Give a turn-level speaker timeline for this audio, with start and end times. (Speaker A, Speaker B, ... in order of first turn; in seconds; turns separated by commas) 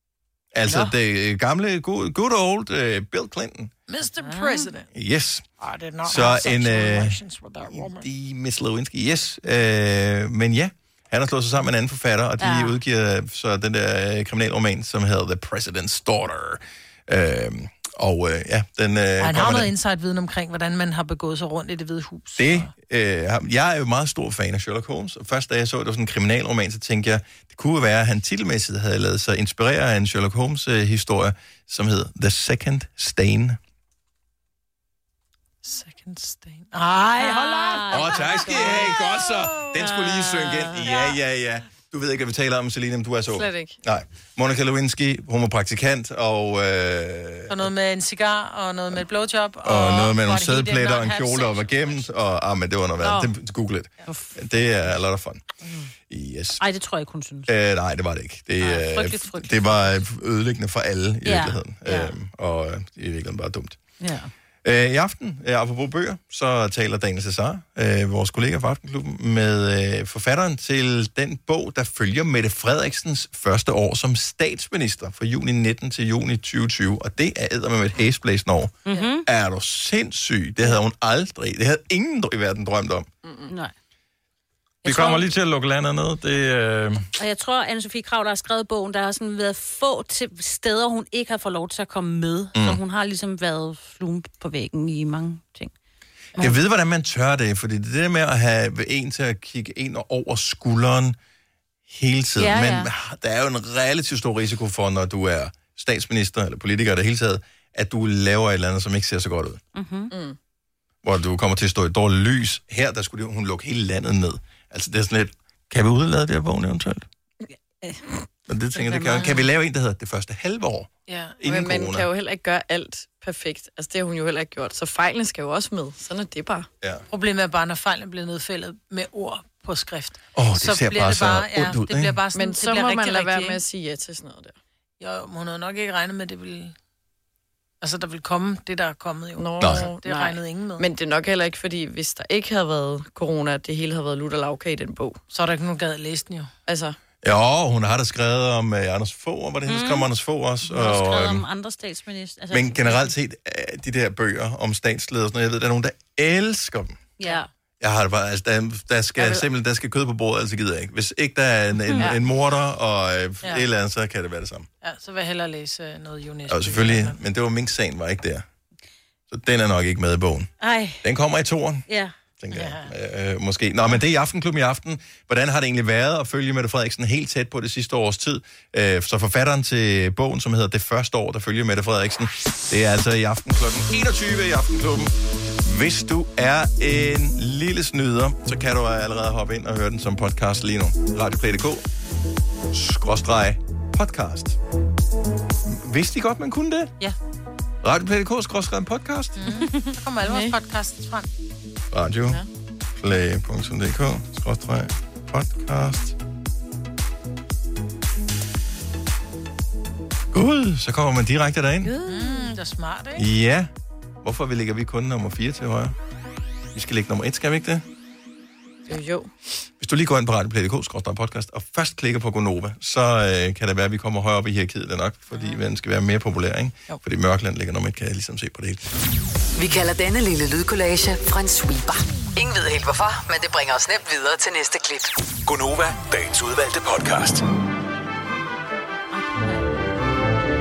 Speaker A: 0.5-3.7, Speaker B: 3.9-4.9, Speaker C: 4.3-4.6, Speaker A: 4.9-5.4, Speaker B: 5.6-8.1, Speaker A: 6.0-19.7, Speaker C: 12.4-12.7, Speaker B: 19.2-22.7, Speaker A: 22.4-33.6, Speaker B: 35.6-38.5, Speaker C: 37.2-39.2, Speaker A: 37.9-47.7, Speaker C: 39.7-41.2, Speaker D: 43.3-43.8, Speaker B: 47.5-52.0, Speaker A: 49.6-55.4, Speaker D: 53.0-53.3, Speaker C: 54.1-54.6, Speaker A: 56.1-56.6, Speaker C: 56.6-57.5, Speaker A: 57.5-63.8, Speaker C: 58.6-60.0, Speaker C: 61.2-62.1, Speaker C: 64.0-64.3, Speaker A: 64.6-83.1, Speaker C: 78.9-79.2, Speaker D: 83.2-83.5, Speaker A: 84.8-87.0, Speaker C: 84.8-85.3, Speaker C: 87.2-95.7, Speaker A: 92.5-92.8, Speaker A: 96.4-101.2, Speaker A: 101.9-109.6, Speaker C: 102.4-102.9, Speaker C: 109.7-110.1, Speaker D: 110.1-110.3, Speaker A: 111.0-117.1, Speaker C: 117.5-118.2, Speaker A: 118.5-120.9, Speaker C: 118.8-119.4, Speaker B: 119.2-119.4, Speaker B: 121.1-121.4, Speaker A: 121.4-122.0, Speaker D: 121.4-126.7, Speaker B: 127.1-133.6, Speaker A: 130.3-132.2, Speaker D: 132.3-134.5, Speaker B: 135.0-136.7, Speaker B: 137.8-140.8, Speaker D: 139.3-145.2, Speaker A: 139.6-139.9, Speaker B: 145.3-146.5, Speaker D: 146.7-146.9, Speaker A: 147.2-151.4, Speaker C: 149.7-150.1, Speaker C: 150.7-153.1, Speaker A: 152.5-157.0, Speaker C: 157.2-157.5, Speaker A: 157.8-164.7, Speaker B: 164.8-167.2, Speaker A: 166.5-168.4, Speaker A: 169.3-170.5, Speaker C: 170.6-171.0, Speaker A: 171.0-171.8, Speaker C: 171.9-172.1, Speaker A: 172.4-191.8, Speaker B: 172.5-172.9, Speaker A: 192.7-194.6, Speaker A: 195.6-196.9, Speaker A: 197.8-199.4, Speaker B: 199.4-201.3, Speaker D: 200.2-200.5, Speaker A: 201.9-202.4, Speaker A: 203.0-206.2, Speaker A: 210.3-211.9, Speaker D: 211.9-212.4, Speaker B: 212.0-213.3, Speaker A: 213.2-213.7, Speaker A: 214.2-215.9, Speaker A: 216.7-217.8, Speaker D: 218.9-219.3, Speaker A: 219.8-228.8, Speaker E: 229.6-235.1, Speaker F: 235.4-237.4, Speaker C: 239.1-239.7